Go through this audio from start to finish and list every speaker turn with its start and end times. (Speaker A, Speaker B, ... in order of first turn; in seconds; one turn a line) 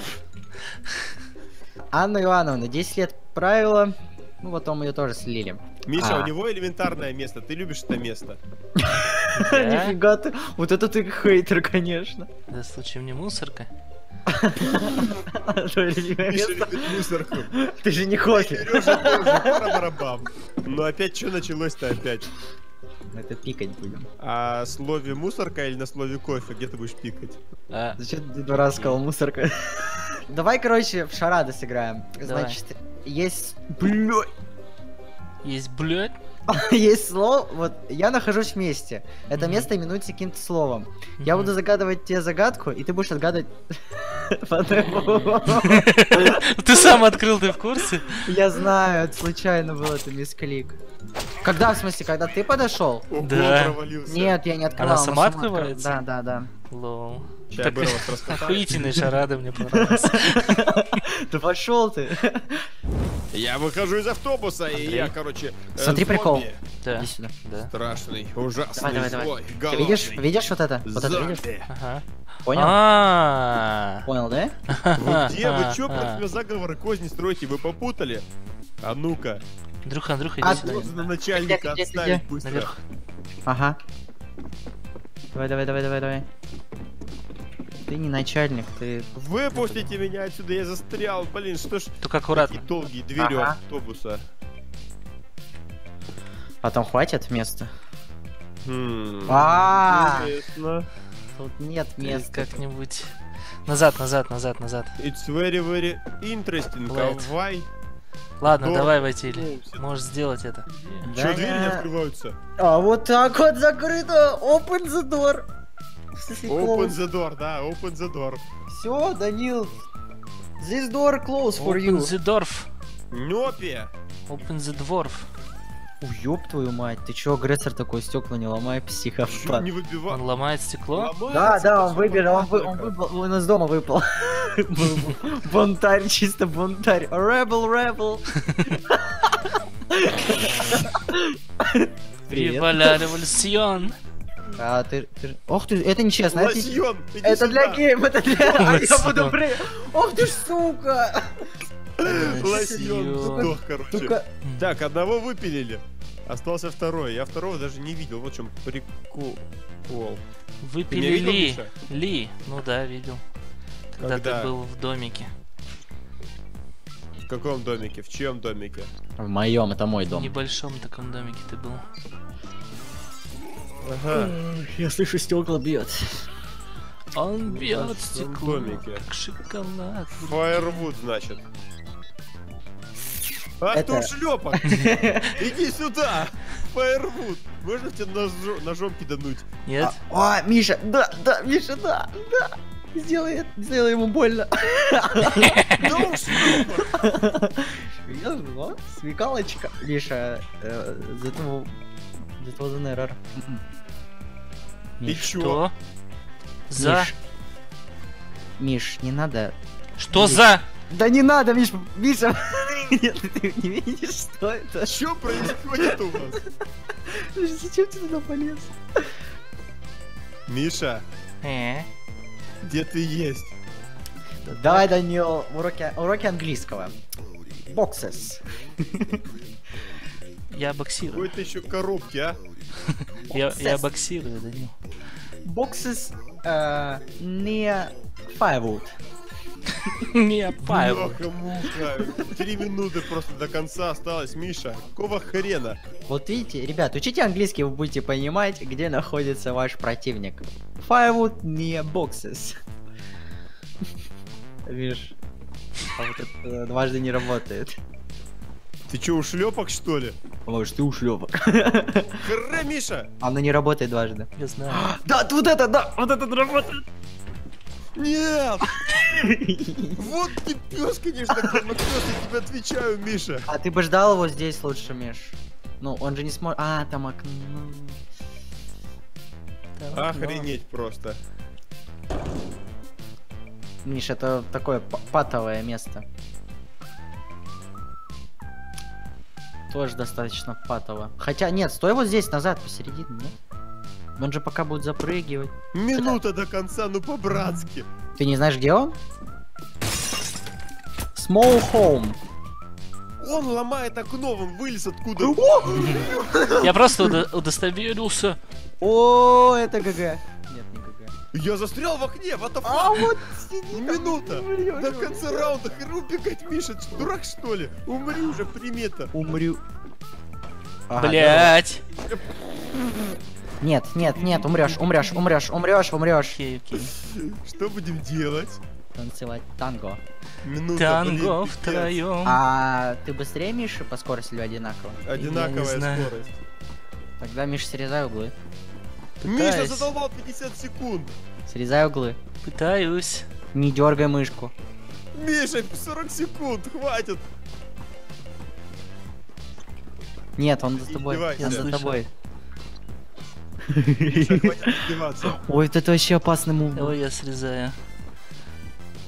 Speaker A: 1.9-6.3
Speaker B: 5.8-8.4
Speaker A: 8.8-12.3
Speaker C: 9.3-10.0
Speaker C: 12.5-13.7
Speaker A: 14.3-19.8
Speaker B: 16.2-17.5
Speaker B: 18.3-22.3
Speaker A: 23.1-24.1
Speaker B: 24.2-27.4
Speaker C: 27.7-28.0
Speaker A: 28.0-34.3
Speaker C: 28.7-29.0
Speaker C: 32.2-32.6
Speaker C: 35.4-36.1
Speaker A: 36.5-46.4
Speaker C: 39.3-39.7
Speaker C: 41.2-41.5
Speaker C: 45.5-48.3
Speaker A: 48.2-50.8
Speaker A: 51.4-53.1
Speaker B: 53.1-54.4
Speaker C: 53.2-53.8
Speaker A: 54.1-56.5
Speaker C: 54.8-56.0
Speaker C: 56.7-60.8
Speaker B: 57.5-59.2
Speaker A: 59.7-62.6
Speaker B: 63.3-66.6
Speaker C: 64.7-65.1
Speaker A: 65.8-67.3
Speaker C: 66.8-67.7
Speaker B: 67.6-70.2
Speaker A: 68.8-71.5
Speaker B: 70.8-71.7
Speaker C: 71.7-74.1
Speaker A: 72.5-72.8
Speaker A: 74.0-74.5
Speaker C: 74.7-76.2
Speaker B: 75.0-78.2
Speaker B: 78.8-79.4
Speaker C: 79.8-81.0
Speaker A: 80.4-82.2
Speaker B: 80.5-82.7
Speaker C: 82.4-82.8
Speaker A: 83.5-83.8
Speaker A: 85.3-86.2
Speaker A: 87.9-89.9
Speaker B: 89.2-94.2
Speaker C: 92.0-92.6
Speaker A: 93.2-93.6
Speaker A: 96.6-97.7
Speaker B: 98.6-100.9
Speaker A: 99.3-100.3
Speaker A: 101.3-102.6
Speaker C: 102.0-103.1
Speaker C: 103.7-104.9
Speaker B: 105.0-107.7
Speaker C: 106.9-107.3
Speaker C: 108.4-111.1
Speaker B: 108.5-109.8
Speaker A: 111.0-111.9
Speaker B: 111.1-112.3
Speaker A: 112.6-115.5
Speaker A: 116.1-117.0
Speaker B: 116.5-118.4
Speaker A: 118.7-119.8
Speaker A: 120.6-122.1
Speaker C: 121.6-122.7
Speaker B: 123.1-123.9
Speaker C: 124.3-125.3
Speaker A: 126.0-129.7
Speaker B: 129.3-130.2
Speaker C: 130.1-131.1
Speaker B: 130.9-132.9
Speaker A: 131.3-143.0
Speaker C: 142.3-144.0
Speaker A: 144.6-151.5
Speaker B: 146.3-147.8
Speaker C: 148.3-149.4
Speaker B: 152.0-160.2
Speaker A: 152.0-154.3
Speaker C: 152.1-153.6
Speaker C: 154.4-154.7
Speaker C: 160.6-163.2
Speaker B: 160.9-161.7
Speaker C: 163.9-165.3
Speaker B: 164.0-164.5
Speaker B: 167.2-168.9
Speaker A: 169.2-170.3
Speaker C: 170.1-171.8
Speaker B: 173.8-174.3
Speaker A: 174.1-176.3
Speaker C: 177.1-180.8
Speaker B: 177.4-179.0
Speaker B: 180.2-181.4
Speaker B: 183.6-184.7
Speaker A: 183.7-185.3
Speaker B: 185.3-189.5
Speaker C: 189.7-190.0
Speaker A: 189.8-195.6
Speaker C: 195.4-195.9
Speaker B: 195.8-196.9
Speaker A: 196.2-201.7
Speaker A: 202.4-203.6
Speaker A: 205.0-205.3
Speaker B: 205.0-205.6
Speaker C: 205.2-205.7
Speaker C: 206.7-207.1
Speaker A: 206.8-207.1
Speaker A: 208.6-209.6
Speaker C: 210.0-210.6
Speaker A: 210.1-216.0
Speaker B: 214.8-216.4
Speaker A: 217.1-218.7
Speaker B: 220.5-221.0
Speaker C: 221.4-221.9
Speaker B: 222.6-223.5
Speaker C: 224.4-224.9
Speaker A: 224.5-226.9
Speaker A: 227.6-229.2
Speaker C: 230.5-231.3
Speaker B: 231.1-232.4
Speaker C: 233.3-234.7
Speaker A: 233.3-233.8
Speaker A: 235.4-238.9
Speaker C: 239.9-241.2
Speaker B: 240.6-245.8
Speaker A: 246.1-252.6
Speaker A: 254.7-255.2
Speaker A: 255.9-257.7
Speaker B: 258.9-260.1
Speaker A: 260.4-262.2
Speaker B: 262.2-263.1
Speaker A: 263.2-266.8
Speaker C: 264.4-264.9
Speaker B: 267.9-268.8
Speaker A: 268.8-270.1
Speaker B: 270.0-273.5
Speaker A: 271.3-271.6
Speaker A: 273.5-278.0
Speaker C: 279.8-280.5
Speaker B: 279.9-281.2
Speaker A: 283.8-286.0
Speaker A: 289.7-293.3
Speaker A: 294.2-296.2
Speaker B: 295.7-297.9
Speaker A: 298.1-299.0
Speaker A: 301.1-302.2
Speaker B: 303.2-306.0
Speaker A: 305.1-307.2
Speaker C: 305.6-306.1
Speaker C: 306.6-308.4
Speaker A: 308.8-311.1
Speaker B: 311.3-313.1
Speaker A: 312.6-315.5
Speaker B: 313.7-319.1
Speaker A: 319.1-319.6
Speaker A: 320.9-321.6
Speaker C: 320.9-321.8
Speaker B: 322.0-322.2
Speaker A: 323.6-326.4
Speaker C: 324.1-325.1
Speaker C: 326.3-326.9
Speaker B: 327.0-328.6
Speaker A: 328.9-330.0
Speaker B: 330.4-332.0
Speaker C: 330.7-332.4
Speaker A: 332.2-335.2
Speaker B: 335.0-336.4
Speaker C: 335.2-336.2
Speaker A: 337.2-338.3
Speaker C: 339.2-339.9
Speaker B: 339.2-341.1
Speaker A: 341.5-342.2
Speaker C: 342.4-343.2
Speaker A: 343.5-344.5
Speaker B: 345.1-347.2
Speaker A: 350.4-352.1
Speaker B: 350.8-351.7
Speaker C: 351.4-352.0
Speaker A: 353.7-356.9
Speaker B: 354.1-355.4
Speaker C: 356.7-357.7